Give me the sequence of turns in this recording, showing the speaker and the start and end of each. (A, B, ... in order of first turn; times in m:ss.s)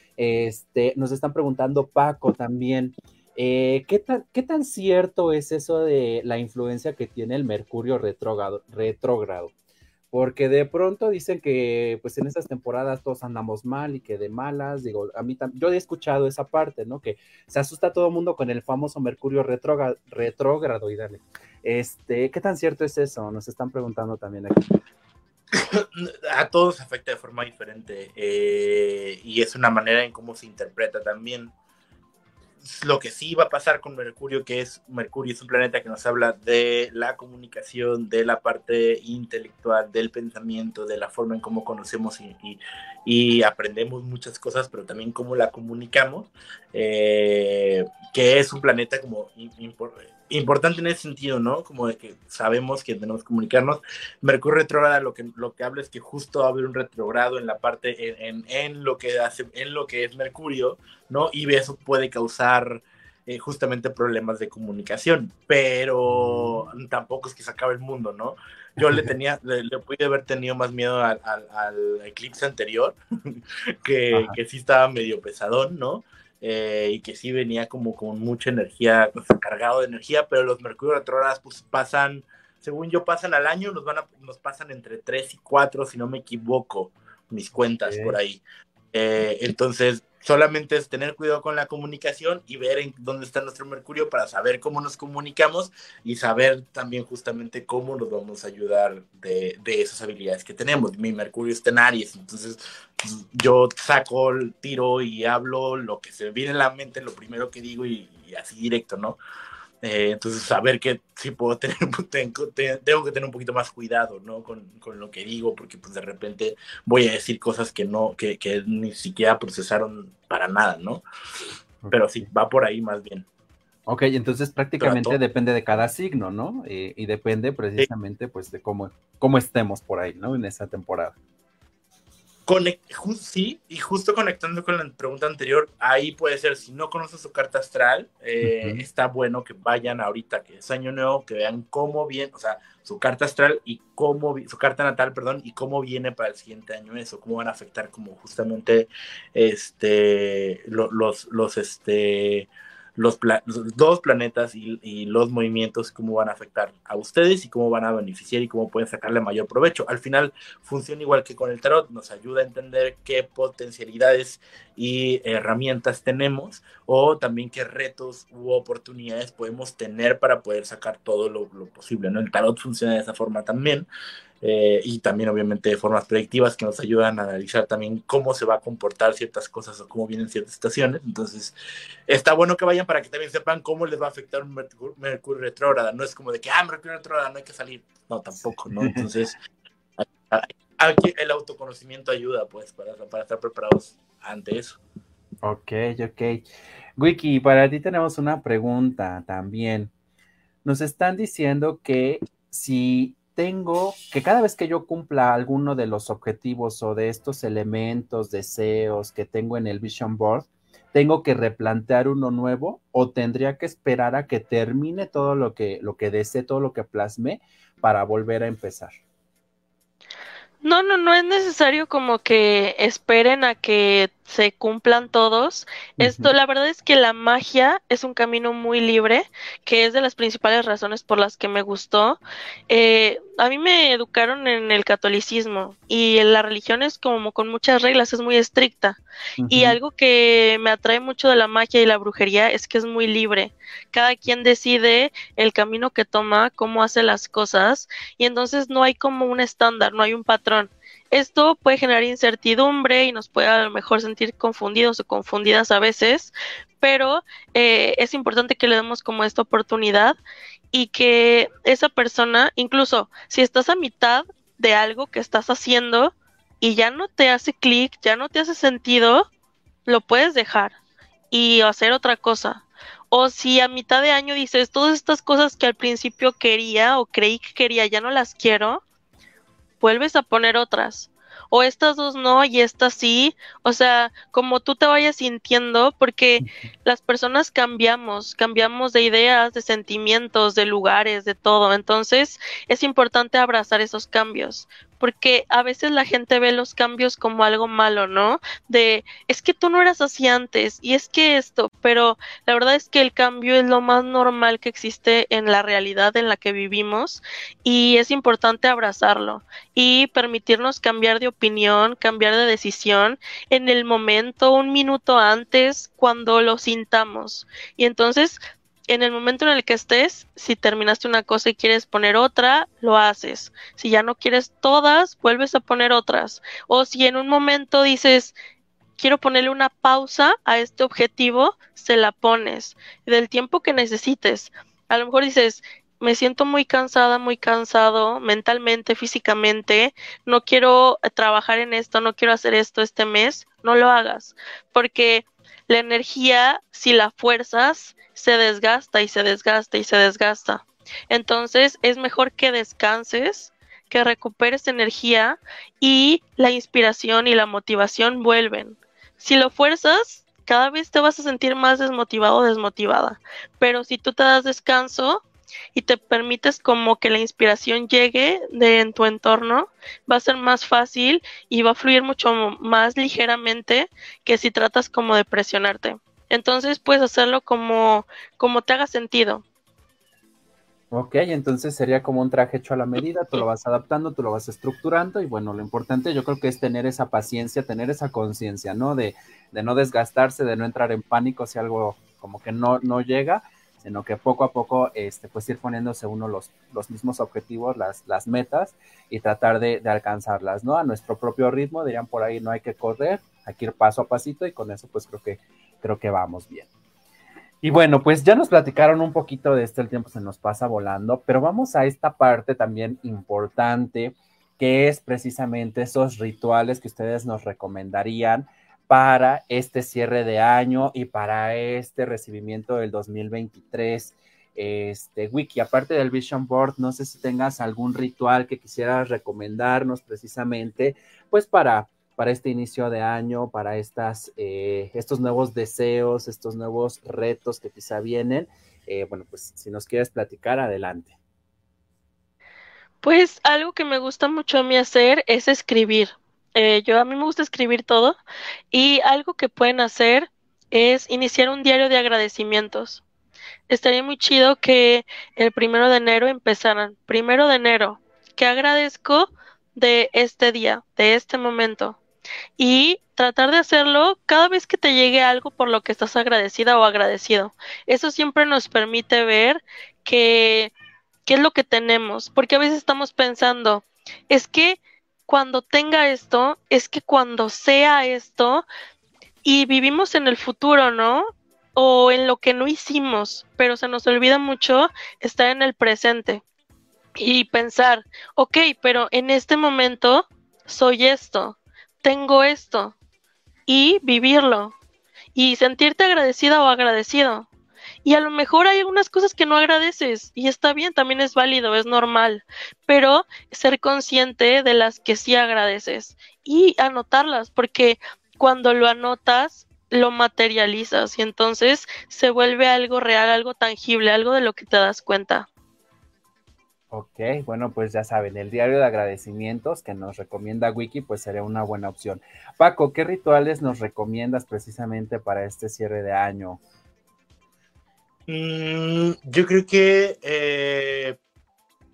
0:00.2-0:09.5 A
0:10.1-0:24.6 A
0:25.5-0:31.5 B
0:32.6-1:49.2 B
1:06.1-1:06.6 A
1:08.8-1:09.1 A
1:27.7-1:28.2 A
1:49.8-2:01.0 B
2:01.8-2:02.2 A
2:01.9-2:03.2 B
2:03.9-2:11.1 A
2:04.8-2:05.2 B
2:12.4-2:53.9 B
2:18.4-2:18.8 A
2:54.4-3:01.5 B
3:02.1-3:09.3 B
3:08.8-3:09.0 A
3:10.0-3:14.8 B
3:15.4-3:16.4 A
3:17.0-3:19.9 A
3:20.6-3:39.0 A
3:40.6-4:20.2 C
3:46.0-3:46.3 A
3:59.4-3:59.8 A
4:20.7-4:29.3 C
4:29.8-4:30.7 C
4:31.3-4:38.8 C
4:39.8-5:18.4 C
5:18.9-5:28.3 C
5:29.0-6:05.2 C
6:05.7-6:19.4 C
6:20.9-6:46.7 A
6:47.6-7:21.1 A
7:23.0-7:28.2 C
7:28.7-7:33.0 C
7:33.7-7:42.0 C
7:42.6-7:50.7 C
7:51.2-7:58.6 C
7:59.4-8:06.4 C
8:07.2-8:12.9 C
8:13.7-8:14.7 C
8:15.3-8:17.5 C
8:18.0-8:35.5 C
8:36.9-8:46.6 A
8:48.3-8:51.2 B